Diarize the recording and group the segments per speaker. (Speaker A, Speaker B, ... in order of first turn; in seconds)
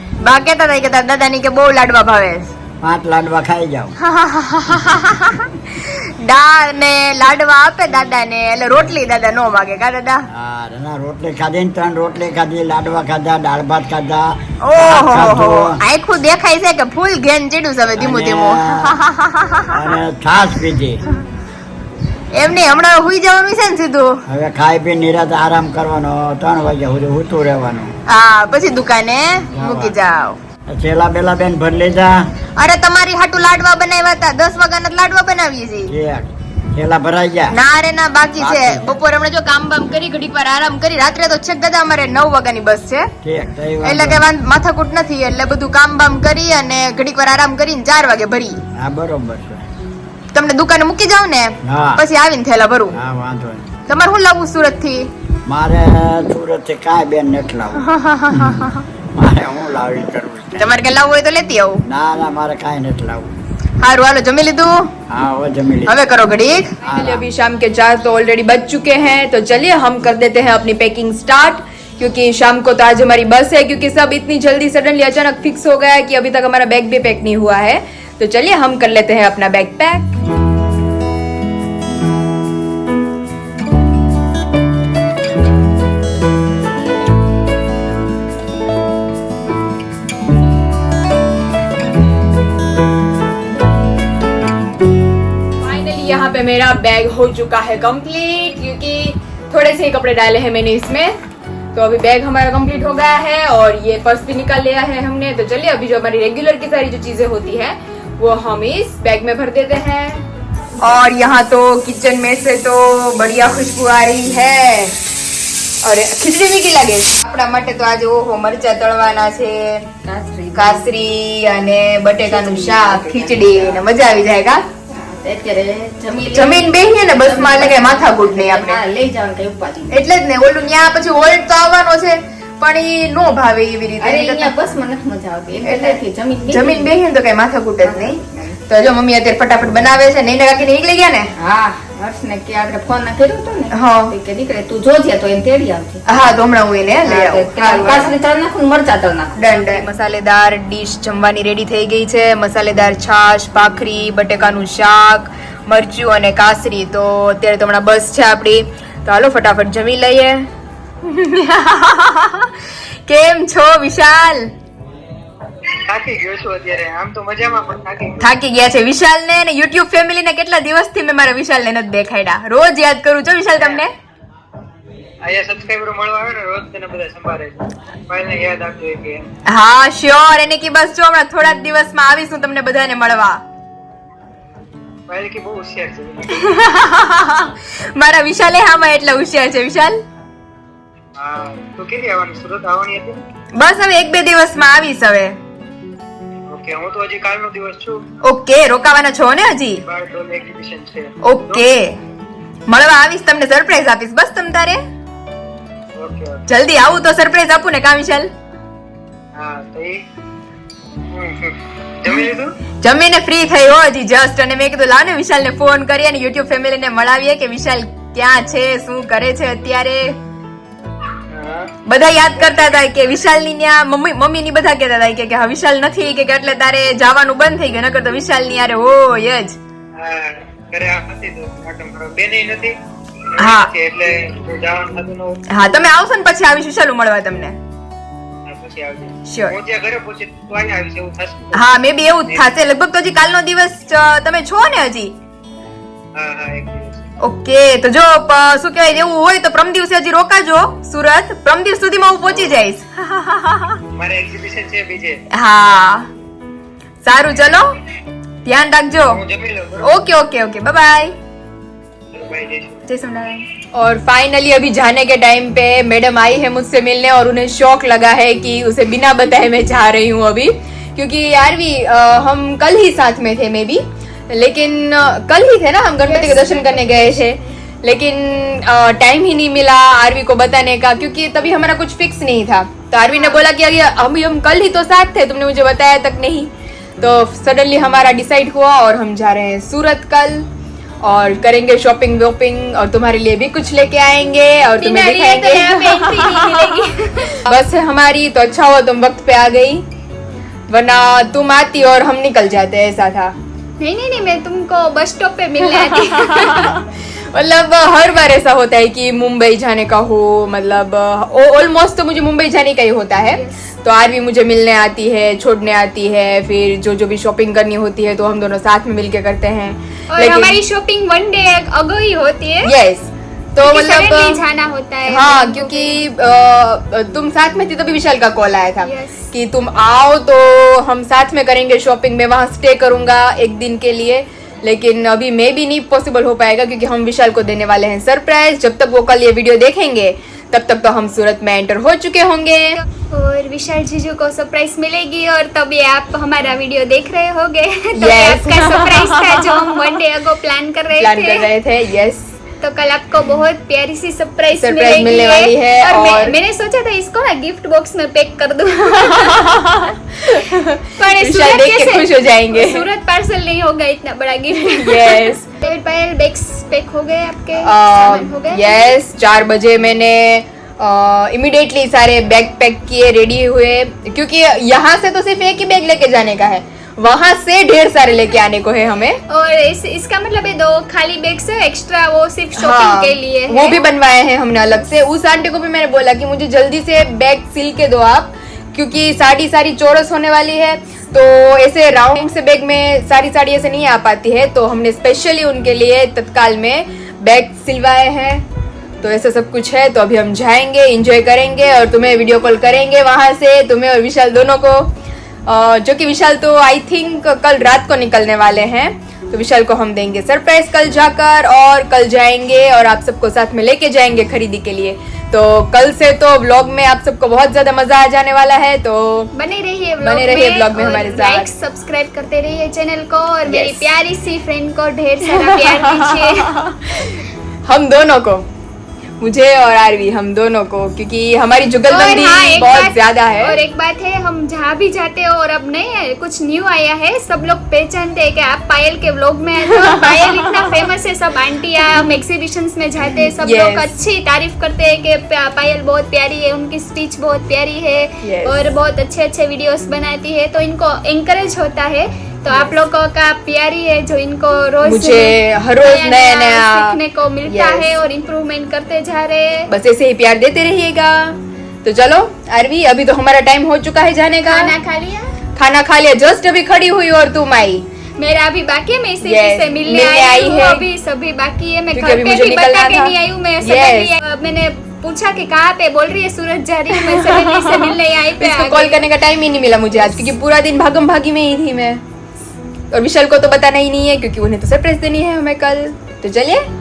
Speaker A: 0.2-2.5, 4.0-10.3, 14.6-19.9, 22.3-24.2, 28.1-30.4, 32.6-35.9, 37.5-43.1, 43.8-48.6, 50.3-53.0, 53.9-55.1, 57.8-58.8, 60.6-61.8, 63.8-64.9, 65.9-80.1, 95.6-101.2, 101.7-110.2, 110.8-115.0, 115.8-119.9, 120.5-124.6, 126.3-128.8, 129.9-134.6, 135.6-141.3, 143.7-144.2, 146.1-148.1, 149.4-160.5, 161.0-164.5, 168.2-173.9, 179.5-183.4, 186.3-190.0, 193.6-195.4, 198.2-199.8, 201.2-201.9, 202.7-204.8, 206.5-208.3, 212.8-220.1, 221.9-229.6, 233.4-233.7, 235.5-237.6, 239.3-239.6, 241.5-245.1, 247.2-253.8, 255.3-256.1, 257.0-257.7, 258.4-259.2, 259.8-261.1, 262.9-286.5, 287.0-290.4, 291.0-299.8, 300.7-303.3, 305.8-320.6, 322.6-324.4, 325.1-342.8, 348.0-349.8, 351.0-352.3, 354.6-356.4, 358.9-362.9, 364.6-365.5, 367.6-379.2, 382.6-398.4, 399.0-404.9, 405.5-419.3, 420.0-421.5, 423.5-423.9, 425.3-428.5, 429.2-433.6, 439.8-440.7, 443.4-443.9, 448.2-448.6, 452.5-452.8, 454.8-458.0, 459.7-464.7, 465.6-467.8, 469.2-470.9, 471.9-474.2, 476.9-482.0, 482.9-486.6
Speaker B: 2.8-4.0, 10.3-15.8, 18.0-19.0, 19.7-21.0, 24.3-27.9, 29.5-30.0, 30.7-32.2, 35.9-37.6, 38.4-38.9, 43.2-44.3, 48.8-49.6, 51.6-52.0, 52.9-53.7, 55.5-58.6, 59.1-60.7, 61.8-63.4, 65.1-66.1, 66.8-67.2
Speaker C: 120.1-120.8, 122.2-123.8, 124.9-129.9, 134.0-136.9, 137.8-138.6, 141.4-146.0, 147.1-149.5
Speaker D: 165.9-168.3, 173.6-173.8, 175.2-179.2, 185.1-186.4, 191.2-193.2, 196.5-198.0, 199.8-201.7, 206.0-206.4, 209.4-210.0, 211.1-212.6, 221.3-221.7, 222.4-222.7, 230.0-232.8, 233.3-235.4, 238.5-242.5, 246.2-247.1, 254.0-255.2, 259.1-260.0, 262.1-262.9
Speaker E: 276.1-277.3, 283.1-283.4, 294.8-297.5, 303.8-306.8, 313.3-313.6, 320.1-322.7, 323.6-326.1, 328.8-329.3, 343.1-351.5, 352.6-359.9, 361.0-368.9, 379.3-383.8, 419.4-426.6, 431.9-459.7, 464.4-465.3, 468.2-479.1